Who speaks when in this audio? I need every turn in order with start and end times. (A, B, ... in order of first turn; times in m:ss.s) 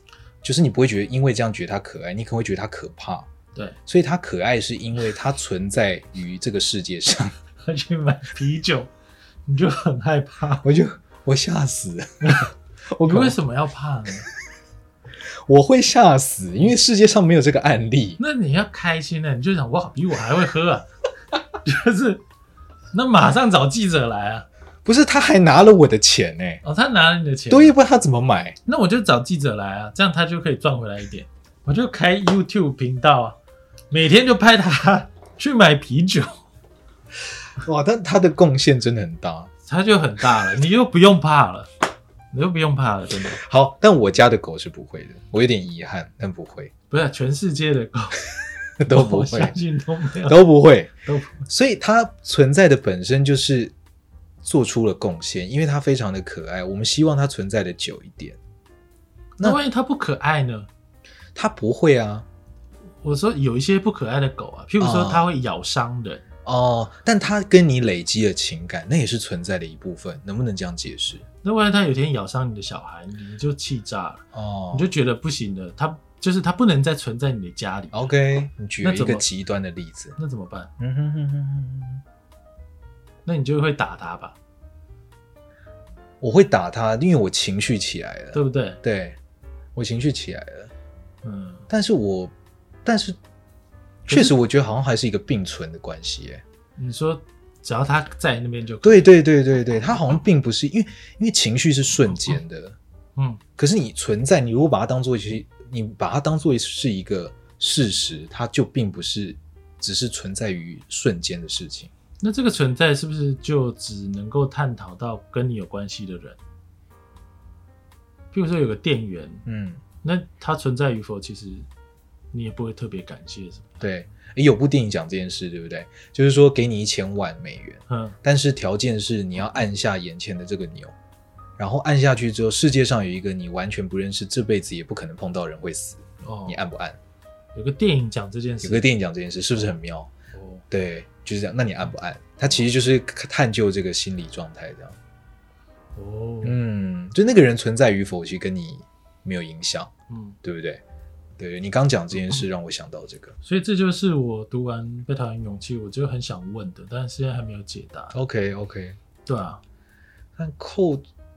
0:00.4-0:03.3 A
0:03.9-0:07.3 A
0:07.6-0:08.9 B
0:09.4-0:10.6 B
0:10.6-0:12.4 A
0:12.2-0:14.2 B
0:13.0-0:13.4 A
0:15.5-0:18.2 A
0:18.2-0:20.9 B
0:21.6-0:22.2 B
0:22.9-0:24.4 B
0:24.8-0:26.6 A
0:26.6-0:27.8 B
0:27.5-0:28.6 A
0:28.6-0:33.4 B
0:33.9-0:36.4 B
0:37.6-0:39.5 A
0:39.6-0:41.7 B
0:42.3-0:43.4 B
0:43.3-0:46.7 A
0:46.9-0:48.3 B
0:48.8-0:49.6 A
0:48.8-0:50.5 B
0:50.2-0:50.9 A
0:51.0-0:51.4 B
0:51.4-0:53.7 A
0:54.4-0:58.4 A
0:59.4-1:00.7 B
1:01.3-1:02.2 A
1:03.0-1:06.2 B
1:04.8-1:05.2 A
1:06.4-1:11.2 A
1:11.4-1:18.1 B
1:14.3-1:14.9 A
1:17.9-1:20.2 A
1:18.8-1:19.2 B
1:20.2-1:20.7 B
1:20.8-1:22.0 A
1:23.2-1:24.4 B
1:26.2-1:29.2 A
1:28.3-1:28.8 B
1:29.8-1:30.7 A
1:31.2-1:31.7 B
1:31.7-1:32.3 A
1:32.8-1:33.2 A
1:34.0-1:36.4 A
1:36.8-1:39.1 B
1:38.8-1:42.8 A
1:43.6-1:51.9 A
1:52.2-1:56.4 B
1:58.3-1:59.4 B
1:59.4-1:59.8 A
2:00.0-2:01.7 B
2:02.3-2:03.7 B
2:03.8-2:10.9 A
2:07.9-2:08.2 B
2:11.6-2:17.0 A
2:16.2-2:16.6 B
2:17.5-2:18.9 B
2:18.6-2:20.1 A
2:20.3-2:20.6 B
2:20.7-2:25.0 A
2:26.0-2:26.6 B
2:26.4-2:29.9 A
2:30.1-2:30.4 B
2:30.4-2:30.8 A
2:31.4-2:33.3 A
2:33.4-2:38.2 B
2:38.1-2:39.0 A
2:39.2-2:39.6 B
2:40.4-2:41.0 A